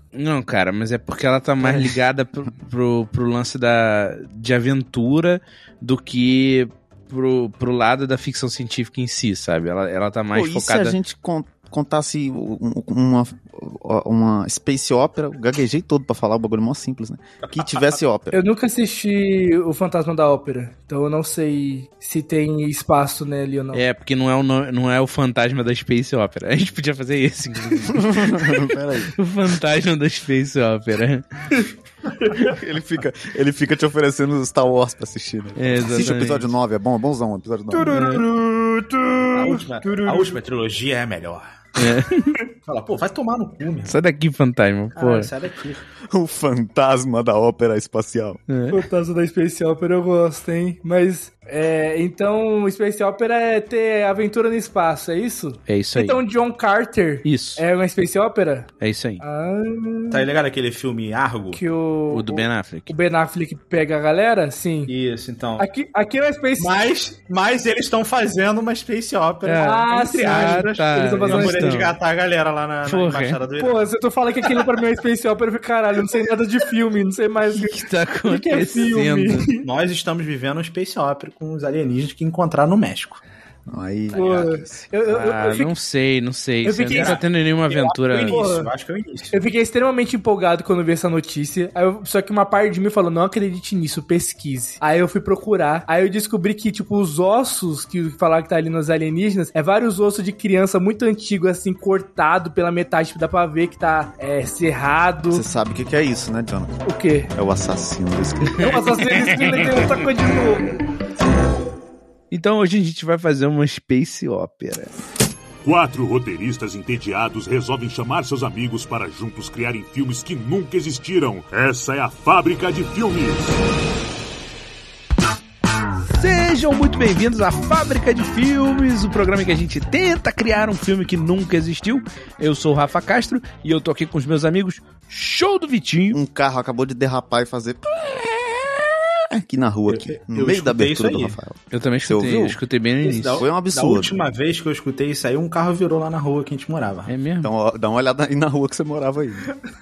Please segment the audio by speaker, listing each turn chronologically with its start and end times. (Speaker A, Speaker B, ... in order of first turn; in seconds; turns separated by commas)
Speaker A: 0.1-11.0, Speaker B: 10.3-18.4, Speaker C: 17.4-17.9, Speaker D: 18.3-23.8, Speaker A: 23.7-28.5, Speaker B: 27.9-29.1, Speaker A: 29.2-31.5, Speaker D: 32.2-32.5, Speaker B: 32.4-38.1, Speaker A: 35.6-36.5, Speaker D: 37.7-40.4, Speaker C: 37.9-38.2, Speaker C: 39.3-41.5, Speaker A: 41.8-42.4, Speaker C: 42.6-44.0, Speaker A: 43.9-45.3, Speaker C: 44.9-45.8, Speaker B: 46.1-48.4, Speaker A: 48.5-48.9, Speaker D: 48.7-58.7, Speaker A: 55.7-56.2, Speaker A: 57.2-57.6, Speaker A: 58.8-59.2, Speaker D: 59.2-60.3, Speaker C: 60.1-61.6, Speaker D: 61.5-64.9, Speaker A: 62.1-62.9, Speaker C: 64.9-65.7, Speaker D: 65.6-66.7, Speaker C: 66.6-73.8, Speaker A: 69.4-72.0, Speaker D: 69.6-71.8, Speaker A: 72.8-73.4, Speaker D: 73.6-79.7, Speaker A: 77.5-79.5, Speaker C: 79.6-83.2, Speaker B: 83.7-84.8, Speaker D: 84.1-85.7, Speaker A: 85.0-88.3, Speaker D: 86.6-87.2, Speaker C: 86.9-89.4, Speaker D: 88.3-88.7, Speaker D: 89.3-105.4, Speaker B: 105.3-106.8, Speaker D: 106.8-107.3, Speaker B: 107.3-109.1, Speaker A: 108.5-109.5, Speaker D: 108.6-110.7, Speaker A: 112.3-114.9, Speaker E: 115.6-123.6, Speaker A: 126.1-136.2, Speaker B: 136.1-137.8, Speaker B: 139.3-142.6, Speaker C: 139.9-141.4, Speaker A: 141.7-143.5, Speaker C: 143.0-147.1, Speaker B: 143.4-144.2, Speaker A: 147.1-147.5, Speaker B: 147.4-149.5